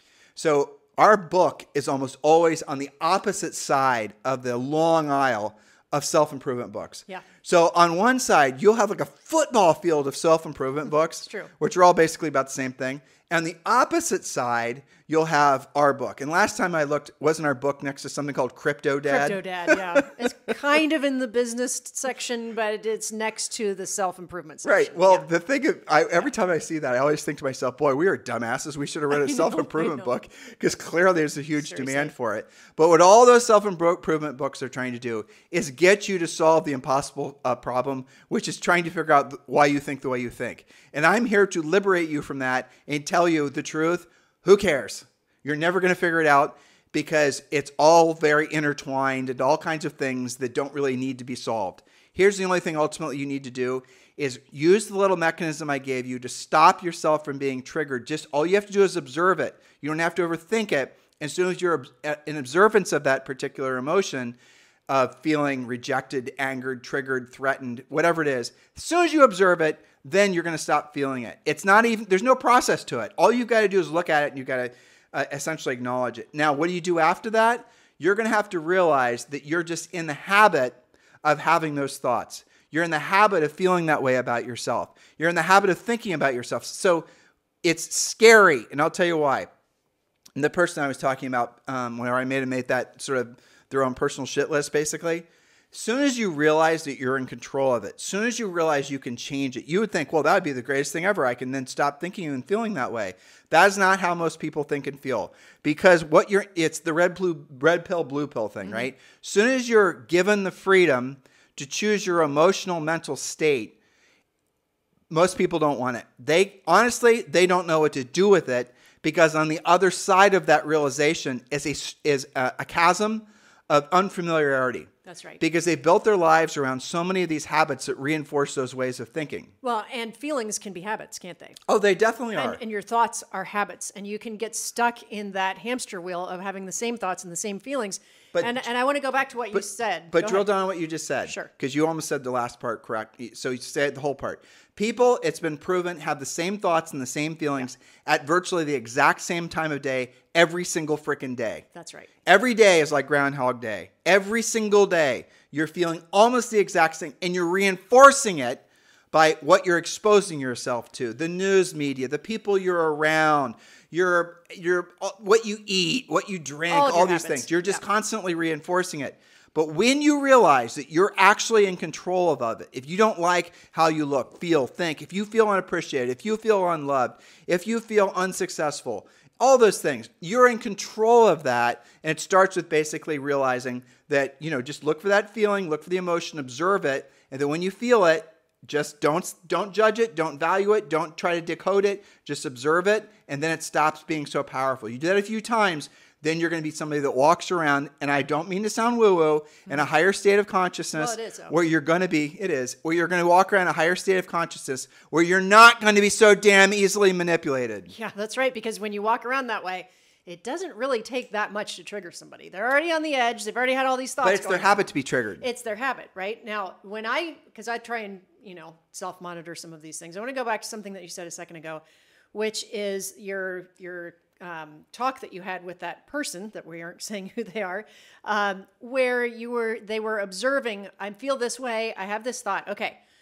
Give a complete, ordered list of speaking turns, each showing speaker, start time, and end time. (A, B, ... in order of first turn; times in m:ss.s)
0:00.4-0:20.5 A
0:11.2-0:11.5 B
0:19.1-0:25.3 B
0:24.6-1:04.4 A
0:29.2-0:30.0 B
0:31.6-0:32.1 B
1:04.9-1:27.0 A
1:27.6-1:29.5 A
1:30.4-1:53.8 A
1:48.6-1:48.9 B
1:55.1-2:09.5 A
2:05.0-2:05.4 B
2:09.6-2:11.6 B
2:11.7-2:12.6 A
2:12.4-2:20.5 B
2:18.3-2:18.7 A
2:19.5-2:31.7 A
2:31.8-2:32.1 B
2:32.3-3:27.9 A
2:46.7-2:47.8 B
3:21.0-3:21.6 B
3:27.9-3:34.8 B
3:34.2-3:35.4 A
3:35.4-3:41.8 B
3:42.3-3:53.0 B